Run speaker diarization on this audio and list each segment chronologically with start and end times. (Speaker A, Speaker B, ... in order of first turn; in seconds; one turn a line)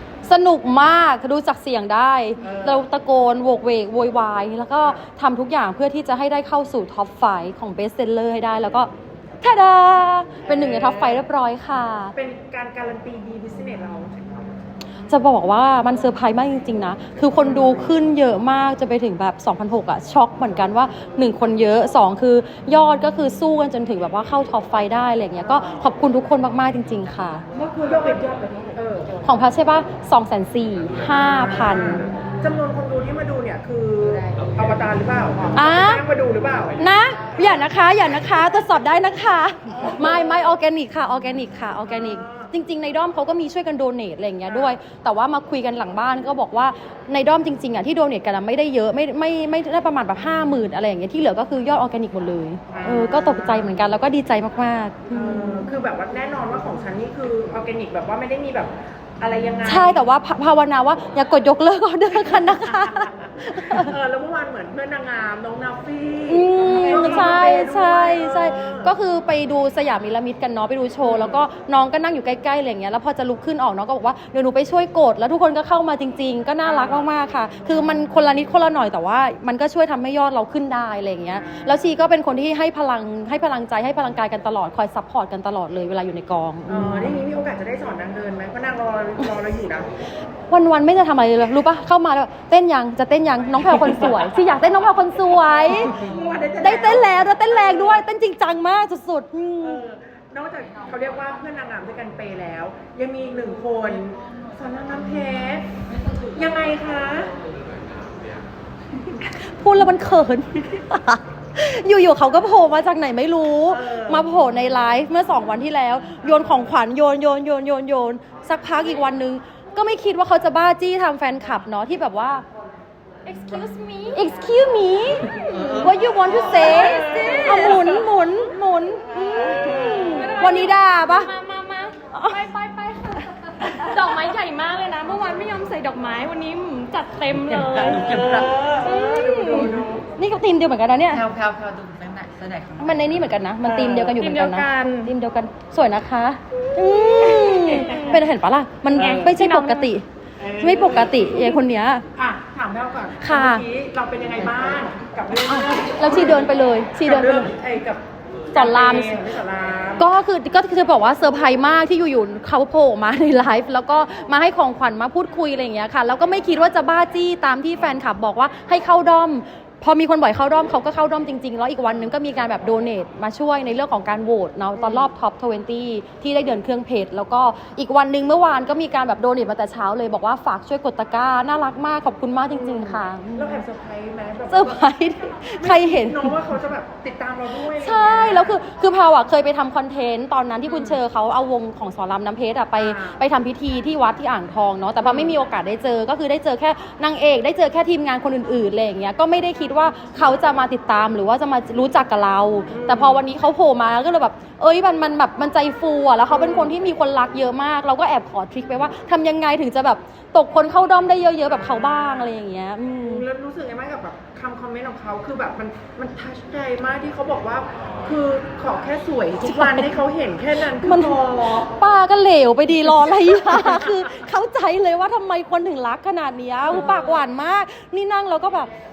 Speaker A: 0.2-8.9
Speaker B: 2.4-2.8
Speaker A: 9.4-12.1
Speaker B: 10.4-11.2
Speaker B: 12.1-14.5
Speaker A: 15.1-27.4
Speaker B: 17.4-17.8
Speaker B: 27.5-29.2
Speaker A: 29.2-32.1
Speaker B: 31.0-36.9
Speaker A: 35.5-36.0
Speaker A: 36.8-55.7
Speaker B: 39.8-40.1
Speaker B: 41.9-42.5
Speaker B: 44.5-44.8
Speaker B: 52.7-53.7
Speaker B: 55.1-60.0
Speaker A: 59.6-63.9
Speaker B: 63.7-68.9
Speaker A: 66.3-87.2
Speaker B: 71.0-71.4
Speaker B: 76.6-77.1
Speaker B: 81.3-81.9
Speaker B: 86.7-89.9
Speaker A: 90.5-96.0
Speaker B: 95.8-98.0
Speaker A: 96.6-99.8
Speaker B: 99.6-105.7
Speaker B: 106.3-107.3
Speaker A: 109.4-122.4
Speaker B: 113.7-114.3
Speaker C: 123.2-124.3
Speaker A: 124.1-131.3
Speaker D: 125.5-126.0
Speaker C: 125.6-128.0
Speaker D: 126.6-127.3
Speaker B: 126.8-127.6
Speaker C: 129.2-138.2
Speaker B: 129.2-130.3
Speaker A: 132.1-132.5
Speaker A: 133.6-134.4
Speaker D: 137.4-139.8
Speaker A: 137.7-141.2
Speaker B: 138.3-140.0
Speaker D: 141.1-143.0
Speaker A: 142.8-150.0
Speaker C: 144.1-145.1
Speaker C: 146.7-148.2
Speaker B: 149.0-149.3
Speaker C: 149.0-149.9
Speaker B: 150.4-151.5
Speaker A: 150.6-152.1
Speaker B: 152.2-156.5
Speaker A: 153.2-153.6
Speaker A: 155.4-157.5
Speaker B: 157.0-160.1
Speaker A: 158.5-159.2
Speaker A: 160.0-183.6
Speaker B: 174.8-175.1
Speaker B: 182.5-188.6
Speaker A: 184.5-186.4
Speaker A: 187.7-213.2
Speaker B: 190.7-191.0
Speaker B: 192.8-193.2
Speaker B: 195.0-195.3
Speaker B: 202.7-203.2
Speaker B: 206.3-206.7
Speaker B: 211.4-212.3
Speaker B: 213.0-221.7
Speaker A: 220.8-228.7
Speaker B: 223.4-223.8
Speaker B: 226.7-227.2